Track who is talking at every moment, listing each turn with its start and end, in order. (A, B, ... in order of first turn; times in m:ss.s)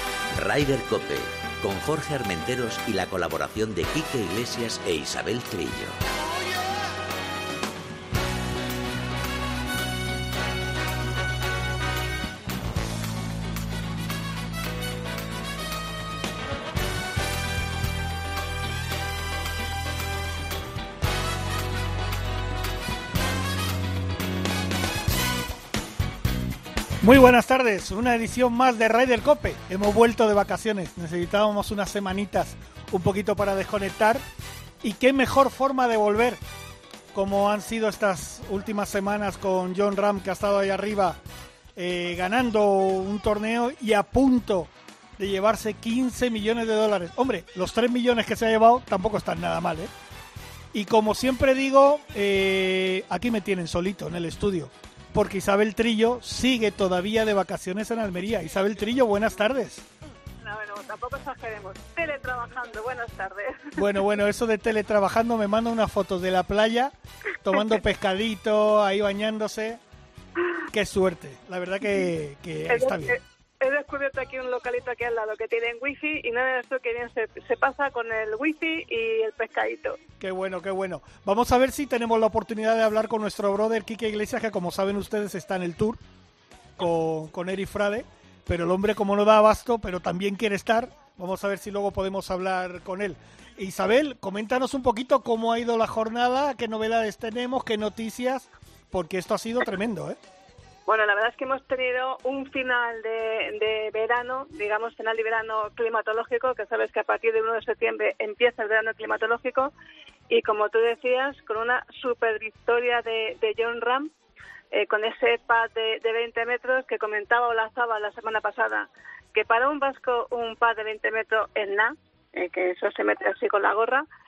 0:00.3-0:06.0 A
0:27.0-0:34.2 B
0:34.8-0:36.4 B
0:37.1-0:41.2 B
0:41.8-0:49.9 B
0:50.7-0:59.9 B
1:00.4-1:03.8 C
1:03.8-1:09.8 B
1:10.7-1:13.2 B
1:12.7-1:20.0 C
1:20.2-1:26.0 B
1:26.8-1:40.2 B
1:40.9-1:49.7 C
1:50.3-1:54.1 C
1:54.7-2:04.0 C